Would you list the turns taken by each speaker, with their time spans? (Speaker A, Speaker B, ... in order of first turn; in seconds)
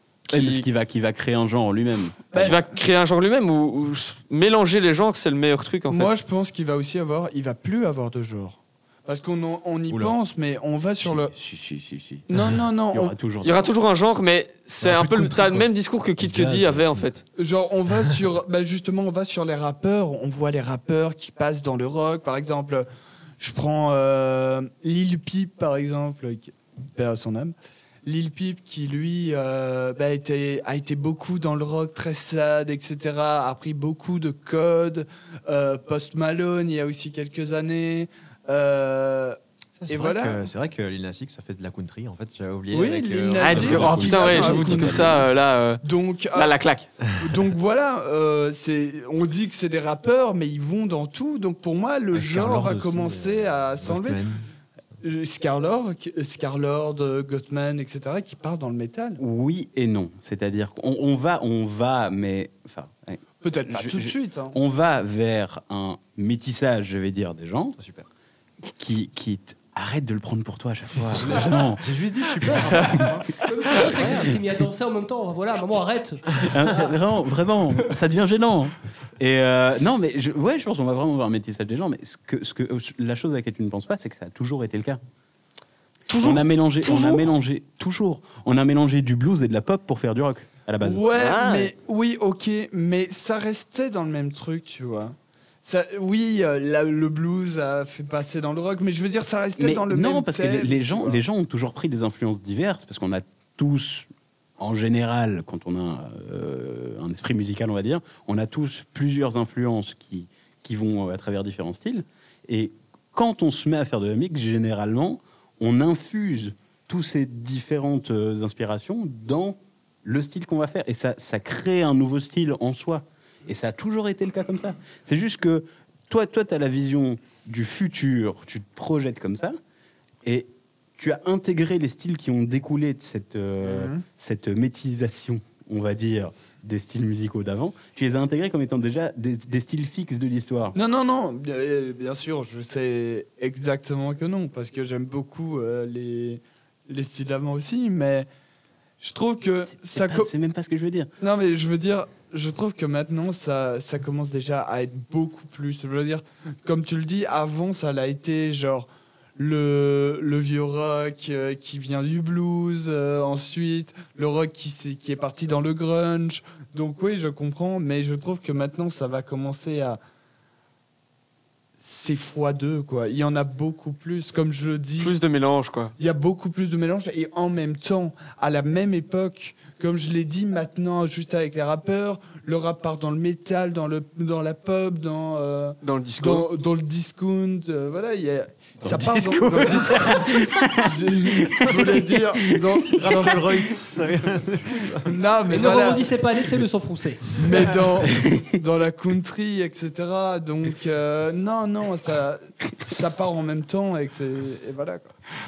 Speaker A: 0.3-0.7, 2.3-6.1, 13.4-17.2, 43.4-46.9, 86.1-87.2, 91.1-91.7, 175.0-175.9, 185.8-186.5
Speaker B: 0.3-2.3, 11.0-12.3, 12.9-13.7, 44.3-44.9, 59.2-67.8, 68.8-71.8, 72.8-73.1, 76.3-85.0, 86.2-91.0, 99.6-104.1, 104.6-129.6, 130.2-140.7, 149.8-151.1, 188.8-193.4, 198.1-198.6
Speaker C: 2.3-2.7, 5.9-11.3, 12.3-13.1, 17.4-22.9, 23.4-27.5, 28.0-40.5, 42.7-45.3, 45.8-46.5, 47.2-54.2, 55.0-59.2, 63.4-64.6, 72.8-73.2, 90.8-101.2, 133.6-134.1, 140.7-148.3, 149.0-150.3, 151.2-170.0, 171.8-175.2, 176.0-193.7, 195.1-196.1, 197.4-205.1
Speaker D: 9.9-10.2, 14.8-15.7, 16.2-17.1, 39.8-45.2, 52.1-54.4, 67.8-68.1, 71.1-73.2, 192.9-195.2
Speaker E: 73.4-76.9, 195.5-197.7